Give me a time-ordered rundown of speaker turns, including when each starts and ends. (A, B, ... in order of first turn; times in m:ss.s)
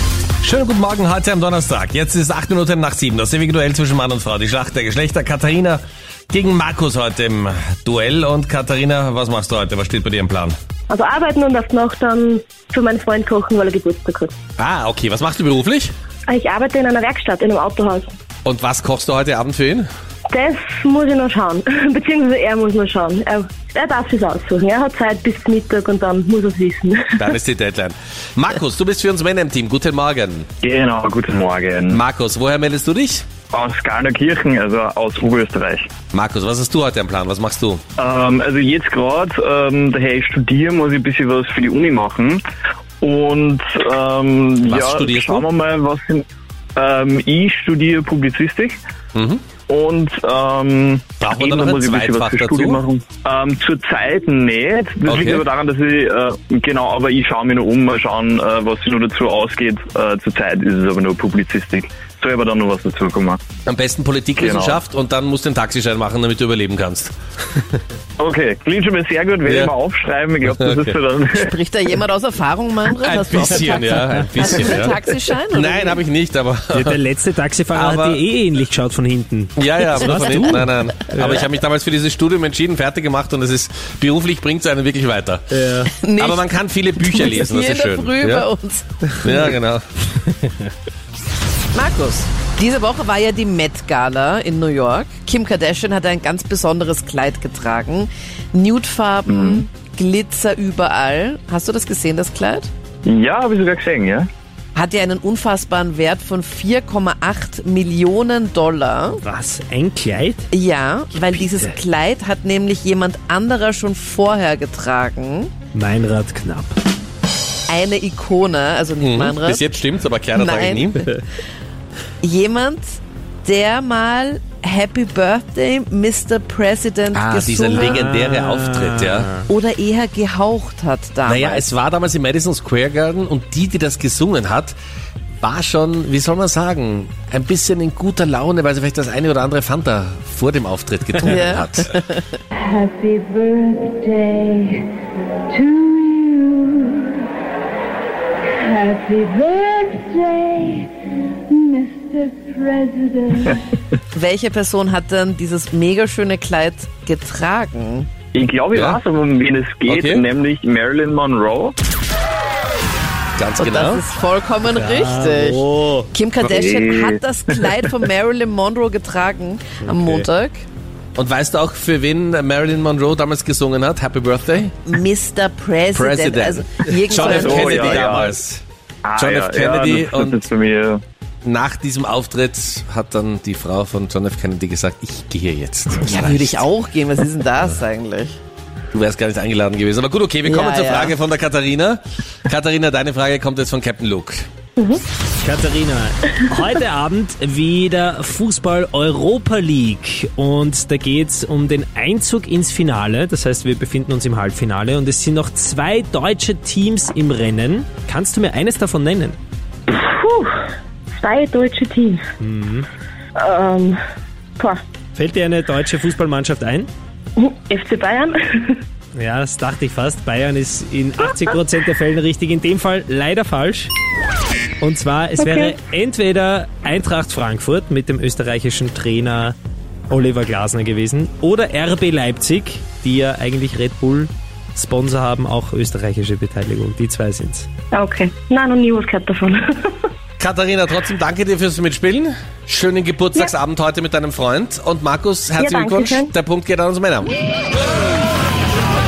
0:00.4-0:10.6 A
0:10.9-0:14.3 B
0:14.6-0:15.9 A
0:16.3-0:18.1 B
0:18.4-0:19.9 A
0:20.3-0:27.2 B
0:27.2-0:30.5 A
0:30.6-0:32.0 C
0:31.9-0:33.3 A
0:33.5-0:35.9 C
0:36.1-0:37.8 A
0:38.0-0:42.4 C
0:43.0-0:48.8 C
0:44.6-0:45.4 A
0:49.1-0:49.5 A
0:49.6-1:03.4 C
0:51.2-0:52.8 A
0:55.0-0:55.4 A
1:03.6-1:07.1 A
1:04.4-1:04.8 C
1:08.2-1:11.5 C
1:09.4-1:09.7 A
1:10.4-1:10.9 A
1:11.3-1:16.0 D
1:13.0-1:15.0 A
1:15.5-1:17.0 A
1:16.7-1:21.4 E
1:17.7-1:18.2 A
1:19.6-1:25.5 A
1:25.5-1:25.9 E
1:25.8-1:29.5 D
1:26.2-1:28.4 A
1:29.2-1:29.8 A
1:31.7-1:42.7 D
1:39.3-1:39.6 C
1:43.0-1:44.3 C
1:44.8-1:49.2 D
1:49.2-1:50.5 E
1:50.5-1:55.5 D
1:55.7-1:56.8 E
1:57.7-1:59.6 D
1:59.0-2:01.1 A
2:00.3-2:01.1 D
2:02.2-2:08.0 D
2:07.1-2:09.3 A
2:07.8-2:09.5 E
2:09.4-2:11.7 D
2:11.3-2:14.8 A
2:15.4-2:21.9 A
2:21.2-2:22.4 D
2:22.7-2:24.9 F
2:25.5-2:27.1 F
2:28.6-2:30.9 F
2:31.5-2:33.5 F
2:34.1-2:38.1 D
2:38.3-2:41.7 C
2:38.7-2:39.0 A
2:39.8-2:40.2 A
2:43.4-2:44.0 A
2:43.6-2:50.6 D
2:44.7-2:46.1 E
2:46.4-2:47.2 C
2:49.8-2:50.2 E
2:51.2-2:54.7 A
2:54.9-2:58.2 D
2:55.9-2:58.6 A
2:57.1-2:58.4 C
2:59.0-3:01.0 C
2:59.2-3:00.5 A
3:01.4-3:06.7 A
3:06.0-3:08.4 D
3:08.9-3:14.4 A
3:10.4-3:11.2 D
3:14.8-3:15.0 B
3:15.4-3:29.4 E
3:29.9-3:32.2 B
3:32.4-3:32.9 E
3:33.4-3:34.0 B
3:35.1-3:36.9 E
3:37.4-3:38.8 B
3:39.1-3:43.9 E
3:44.8-3:49.5 E
3:45.4-3:45.7 B
3:50.1-3:57.7 E
3:57.9-3:59.9 B
4:00.4-4:07.3 A
4:05.6-4:06.3 B